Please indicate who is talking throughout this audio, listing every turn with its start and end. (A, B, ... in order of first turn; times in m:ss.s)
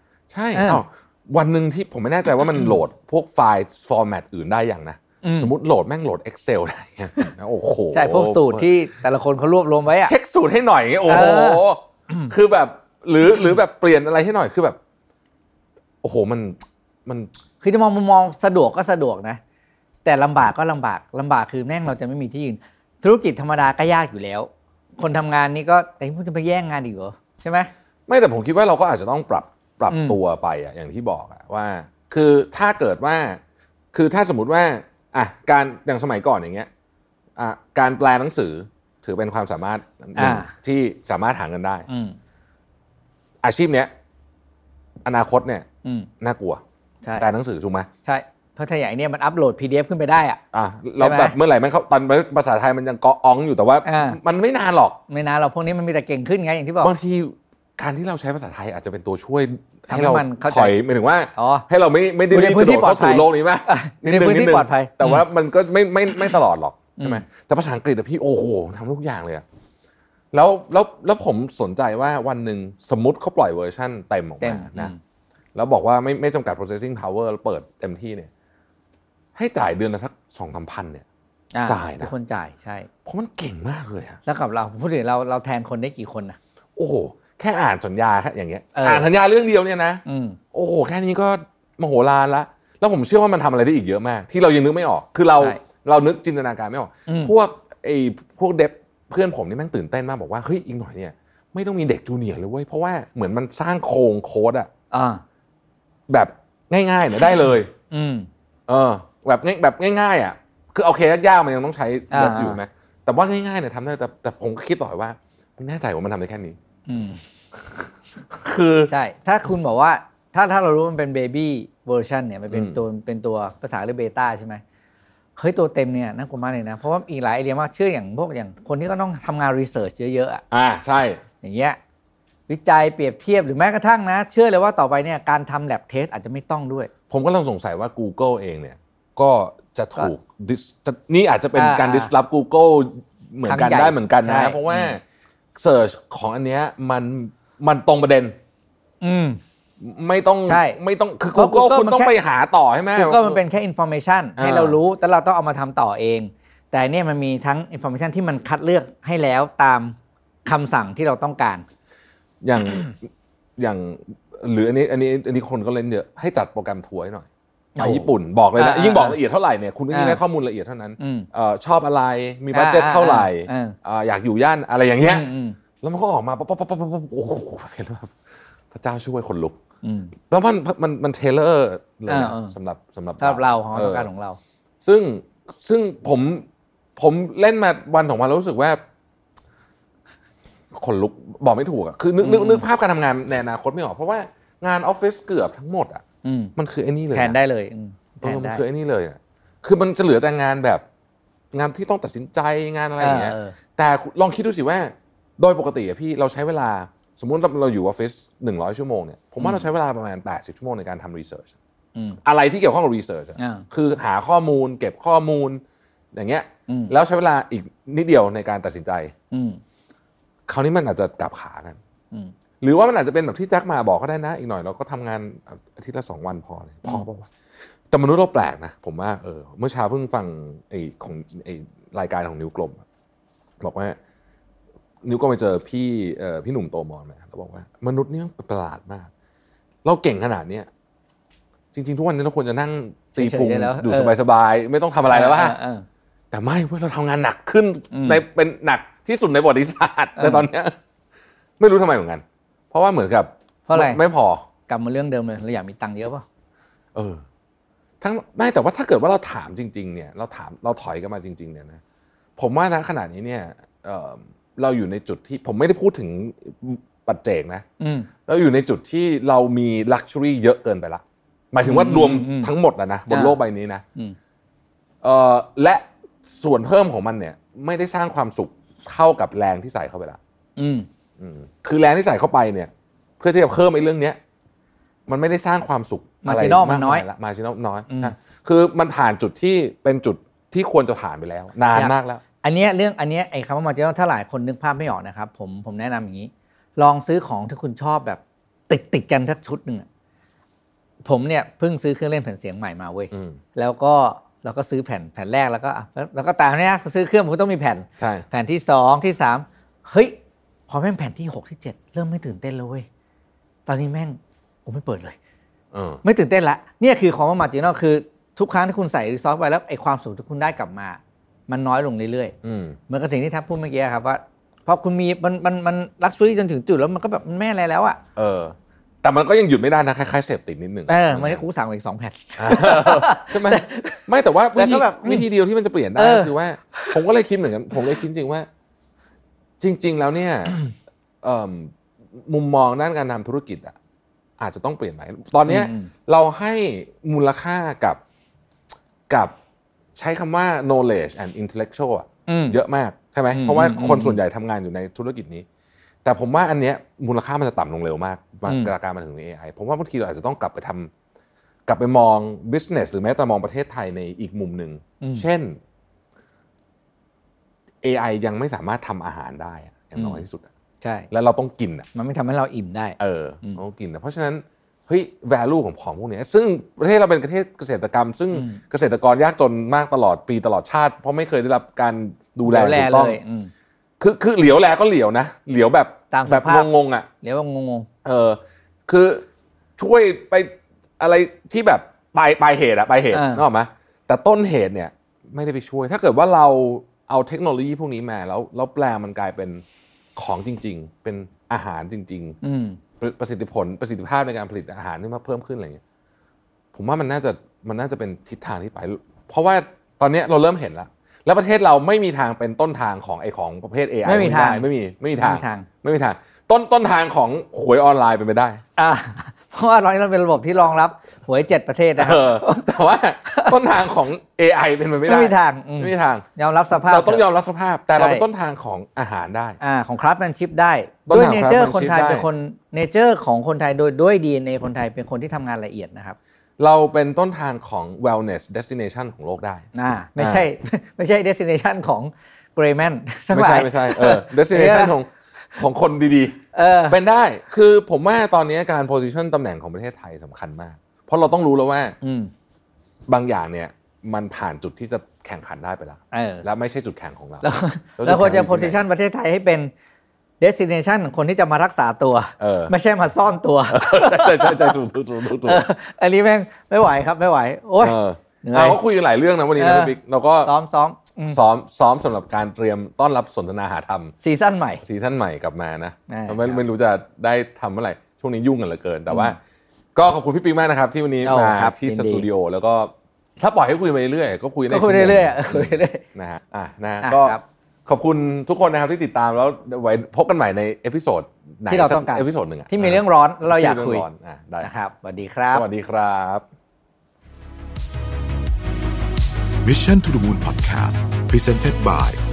0:00.3-0:08.7 A
0:00.5-0:00.8 B
0:05.2-0:05.5 B
0:07.9-0:10.1 B
0:10.0-0:14.8 A
0:11.1-0:12.3 B
0:16.0-0:17.3 A
0:17.6-0:19.4 B
0:20.0-0:27.7 B
0:28.1-0:33.4 A
0:29.9-0:30.2 B
0:33.9-0:36.7 A
0:37.4-0:41.9 A
0:40.2-0:40.5 B
0:41.9-0:42.2 B
0:43.4-0:43.9 A
0:45.0-0:45.6 A
0:45.8-0:46.1 B
0:46.2-0:46.6 A
0:47.2-0:47.9 A
0:48.0-0:50.4 B
0:50.5-0:55.0 A
0:51.0-0:51.4 B
0:53.8-0:54.2 B
0:55.1-0:56.9 B
0:56.8-1:09.4 A
0:59.9-1:00.8 B
1:01.3-1:01.6 B
1:02.3-1:05.2 B
1:07.0-1:07.2 B
1:10.3-1:14.9 A
1:14.4-1:15.0 B
1:15.5-1:18.3 A
1:19.3-1:21.0 A
1:21.5-1:22.9 B
1:21.6-1:22.1 A
1:23.0-1:24.2 A
1:24.2-1:26.4 B
1:26.8-1:44.7 A
1:28.7-1:29.1 B
1:30.0-1:30.4 B
1:37.1-1:37.3 B
1:44.9-1:45.2 B
1:46.1-1:47.7 A
1:47.9-1:48.3 B
1:48.7-1:56.6 A
1:52.1-1:52.6 B
1:56.9-1:57.2 B
1:58.3-1:58.9 A
1:58.9-2:04.6 B
2:02.5-2:02.8 A
2:05.4-2:10.4 B
2:10.5-2:11.2 A
2:11.4-2:11.8 B
2:12.5-2:16.9 B
2:17.1-2:25.0 A
2:21.5-2:22.1 B
2:23.4-2:24.9 B
2:25.6-2:28.3 A
2:29.0-2:29.4 B
2:29.8-2:33.4 A
2:30.5-2:30.8 B
2:31.3-2:32.1 B
2:32.9-2:41.6 B
2:34.4-2:34.8 A
2:42.4-2:43.0 A
2:43.6-2:47.3 A
2:47.7-2:49.2 B
2:47.8-2:55.3 A
2:49.9-2:50.2 B
2:51.0-2:51.3 B
2:52.5-2:53.7 B
2:55.0-2:55.6 B
2:55.8-2:58.2 A
2:58.7-2:59.6 A
2:59.8-3:00.1 B
3:00.2-3:04.1 A
3:02.1-3:02.5 B
3:03.2-3:04.4 B
3:04.8-3:08.8 A
3:10.7-3:16.0 A
3:12.2-3:12.6 B
3:16.2-3:16.5 B
3:16.6-3:17.4 A
3:17.1-3:18.6 B
3:18.2-3:20.8 A
3:21.5-3:31.5 A
3:23.0-3:23.6 B
3:29.4-3:29.7 B
3:32.2-3:35.6 A
3:33.4-3:33.6 B
3:36.1-3:39.1 A
3:36.7-3:36.9 B
3:39.3-3:39.6 B
3:40.5-3:41.8 A
3:42.6-3:47.3 A
3:47.9-3:52.8 A
3:53.6-3:54.0 A
3:55.0-3:59.1 A
3:59.8-4:00.7 A
4:01.7-4:05.6 A
4:03.2-4:04.1 B
4:05.1-4:05.8 B
4:06.3-4:10.7 A
4:07.9-4:08.2 B
4:10.2-4:10.4 B
4:11.6-4:14.4 A
4:13.7-4:14.0 B
4:14.7-4:16.2 B
4:16.9-4:17.2 A
4:18.0-4:21.8 A
4:22.4-4:27.6 A
4:27.8-4:28.1 B
4:28.2-4:33.8 A
4:31.6-4:32.5 B
4:33.1-4:33.4 B
4:35.0-4:40.2 A
4:40.6-4:40.9 B
4:41.2-4:44.2 A
4:45.1-4:52.2 A
4:46.2-4:47.0 B
4:47.9-4:48.1 B
4:51.7-4:59.8 B
5:01.0-5:10.1 B
5:03.1-5:03.4 A
5:08.0-5:08.2 A
5:10.7-5:12.8 B
5:13.6-5:15.2 B
5:15.7-5:16.0 A
5:16.0-5:22.3 B
5:22.4-5:22.8 A
5:22.9-5:28.0 B
5:28.2-5:31.4 A
5:30.9-5:34.0 B
5:32.4-5:38.5 A
5:34.5-5:35.3 B
5:36.0-5:37.0 B
5:39.6-5:40.6 A
5:41.2-5:43.7 A
5:44.4-5:48.0 A
5:45.4-5:45.9 B
5:49.1-5:49.3 A
5:50.0-5:55.4 A
5:52.3-5:52.6 B
5:53.3-5:54.2 B
5:56.0-6:00.9 A
5:58.4-5:58.7 B
6:01.7-6:05.6 A
6:05.0-6:05.2 B
6:07.8-6:10.5 A
6:10.0-6:10.2 B
6:10.8-6:11.1 B
6:11.1-6:11.9 A
6:11.9-6:13.6 B
6:13.0-6:23.2 A
6:18.3-6:18.6 B
6:22.4-6:23.5 B
6:24.0-6:27.1 A
6:26.1-6:26.7 B
6:27.2-6:27.9 B
6:28.0-6:29.2 A
6:29.8-6:39.6 A
6:33.1-6:33.4 B
6:40.1-6:42.4 A
6:42.4-6:42.8 B
6:43.0-6:45.8 A
6:46.7-6:58.6 A
6:54.0-6:55.7 B
6:58.8-7:02.6 B
7:02.0-7:09.6 A
7:03.2-7:03.6 B
7:05.0-7:07.2 B
7:07.9-7:08.2 B
7:09.6-7:16.2 B
7:11.1-7:12.3 A
7:16.6-7:19.7 A
7:19.7-7:24.9 B
7:20.2-7:20.5 A
7:23.3-7:32.0 A
7:26.5-7:27.0 B
7:32.0-7:32.3 B
7:33.1-7:37.4 A
7:36.1-7:36.4 B
7:37.4-7:39.7 B
7:38.0-7:38.8 A
7:40.4-7:44.8 B
7:42.4-7:42.7 A
7:43.7-7:45.6 A
7:45.4-7:48.8 B
7:47.8-7:50.5 A
7:49.6-7:51.4 B
7:51.3-7:54.1 A
7:54.2-7:54.8 B
7:54.8-7:59.4 A
7:56.1-7:56.6 B
7:59.1-7:59.4 B
7:59.9-8:14.7 A
8:01.2-8:02.2 B
8:04.7-8:06.0 B
8:07.0-8:07.4 B
8:11.7-8:14.0 B
8:14.6-8:15.6 B
8:15.5-8:16.4 A
8:19.6-8:22.2 C